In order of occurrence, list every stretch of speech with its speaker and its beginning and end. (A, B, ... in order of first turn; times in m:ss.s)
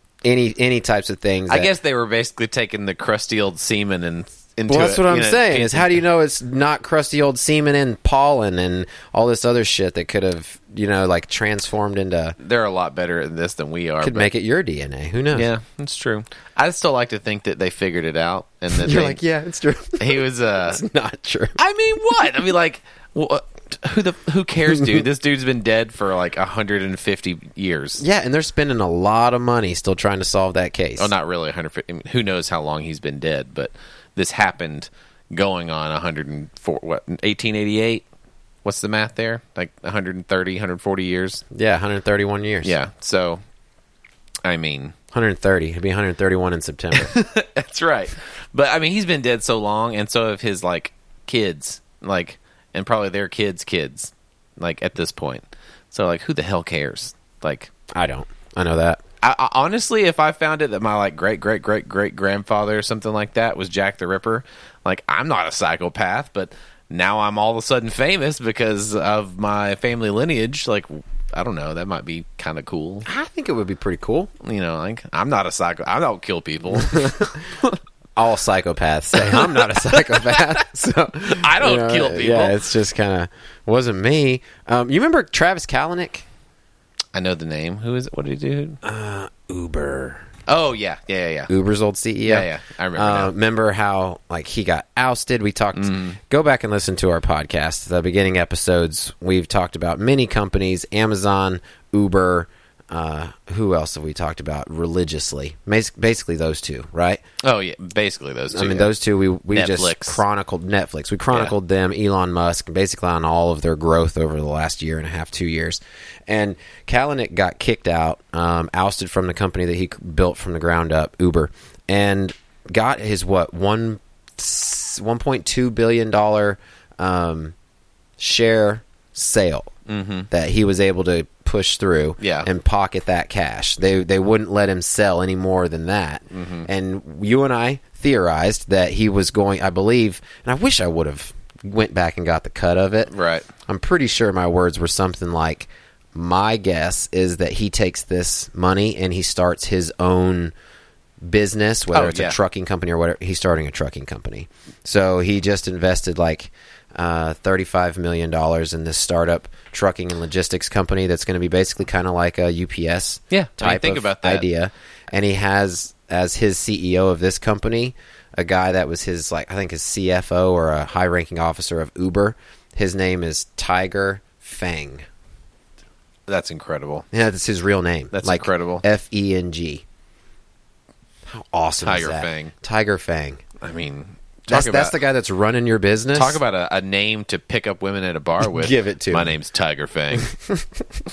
0:00.2-0:01.7 A
0:01.5-0:06.0 B
0:04.7-0:12.4 A
0:12.4-0:14.3 B
0:14.0-0:15.5 A
0:15.3-0:19.2 B
0:18.7-0:21.6 A
0:20.0-0:20.8 B
0:21.6-0:28.0 B
0:24.7-0:25.0 A
0:28.0-0:31.1 A
0:31.0-0:38.0 B
0:38.6-0:41.4 B
0:41.5-0:42.8 A
0:42.6-0:43.4 B
0:44.4-0:45.0 B
0:45.1-0:47.1 A
0:46.9-0:57.7 B
0:58.0-0:59.0 A
0:59.2-1:13.1 B
1:13.1-1:14.3 A
1:14.4-1:17.7 B
1:16.7-1:17.4 A
1:18.2-1:26.3 A
1:19.2-1:20.6 B
1:21.2-1:22.6 B
1:27.1-1:28.8 B
1:28.8-1:30.2 A
1:30.5-1:31.5 B
1:31.5-1:47.2 A
1:32.3-1:33.3 B
1:35.8-1:36.2 B
1:47.4-1:48.9 B
1:48.5-2:07.6 A
1:49.5-1:50.2 B
2:08.2-2:09.7 A
2:09.9-2:10.3 B
2:10.3-2:23.1 A
2:12.2-2:12.5 B
2:16.3-2:16.7 B
2:23.1-2:23.5 B
2:23.7-2:30.5 A
2:31.2-2:55.1 A
2:31.9-2:32.4 B
2:43.3-2:44.4 B
2:56.3-2:57.1 B
2:57.1-2:59.8 A
2:58.1-2:58.8 B
3:01.3-3:03.4 A
3:01.8-3:02.5 B
3:03.6-3:05.0 B
3:04.5-3:06.4 A
3:06.2-3:10.3 B
3:08.4-3:09.4 A
3:10.2-3:10.7 A